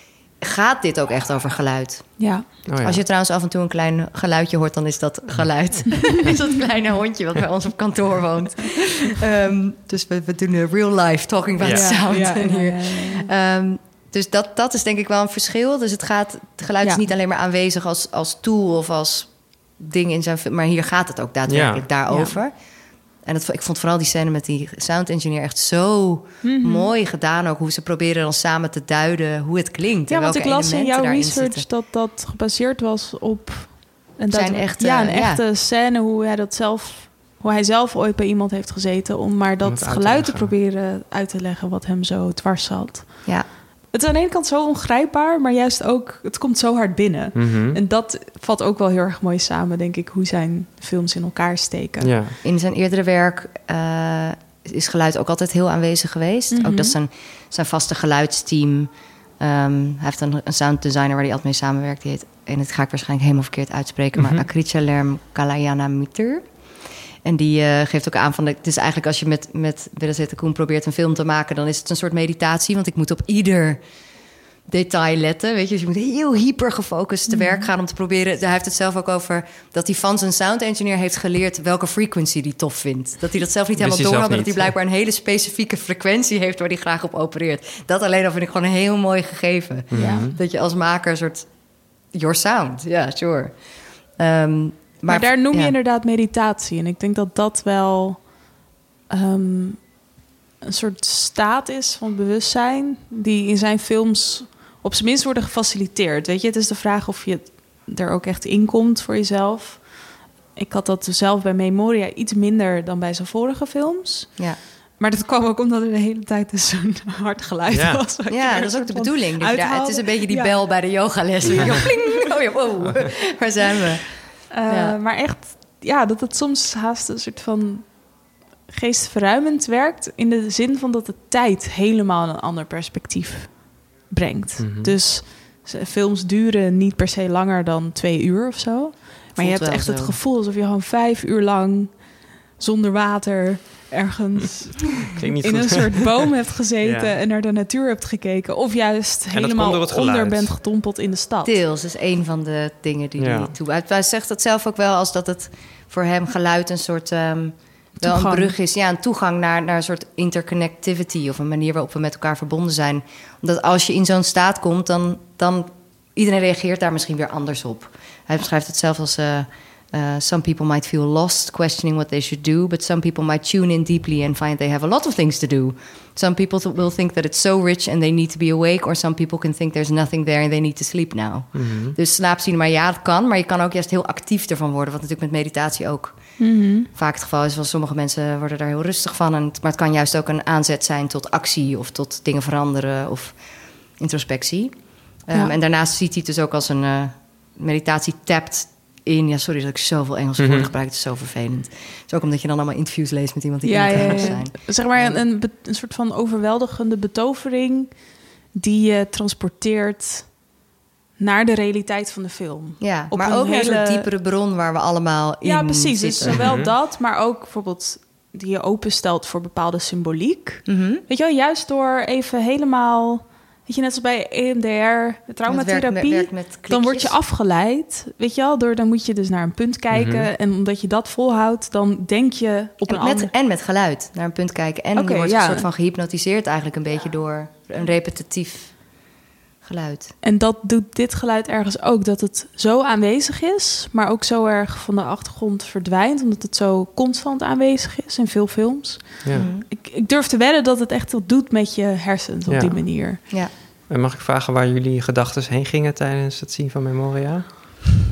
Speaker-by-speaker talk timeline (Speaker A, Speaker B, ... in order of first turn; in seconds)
Speaker A: 0.4-22.6, 23.2-31.7, 34.3-35.4, 52.4-66.5, 67.2-73.8, 74.7-91.5, 92.1-95.8, 118.3-125.0, 139.3-140.2, 151.4-205.2, 212.8-216.6, 220.7-221.0, 225.4-227.2, 232.9-238.8, 239.6-240.2, 249.3-249.7
Speaker B: 2.2-2.5, 11.7-13.3, 22.1-22.4, 26.4-26.9, 30.1-52.1, 56.5-57.0, 77.3-77.7, 90.0-90.3, 95.1-98.4, 99.1-100.0, 100.6-120.6, 121.5-121.9, 124.5-128.1, 128.7-151.6, 158.0-158.6, 186.4-186.9, 203.6-210.4, 211.2-214.1, 215.4-233.3, 234.9-235.7, 240.2-253.2
Speaker C: 2.7-3.0, 5.3-5.8, 11.6-11.9, 21.5-21.8, 39.6-40.5, 47.4-47.8, 52.0-52.4, 64.2-64.4, 83.8-84.7, 89.9-90.4, 117.7-118.0, 134.6-134.9, 145.2-146.2, 146.8-147.2, 149.3-150.6, 153.2-153.5, 181.6-182.0, 200.4-200.7, 216.2-216.7, 229.9-230.3, 252.5-253.3, 253.9-257.8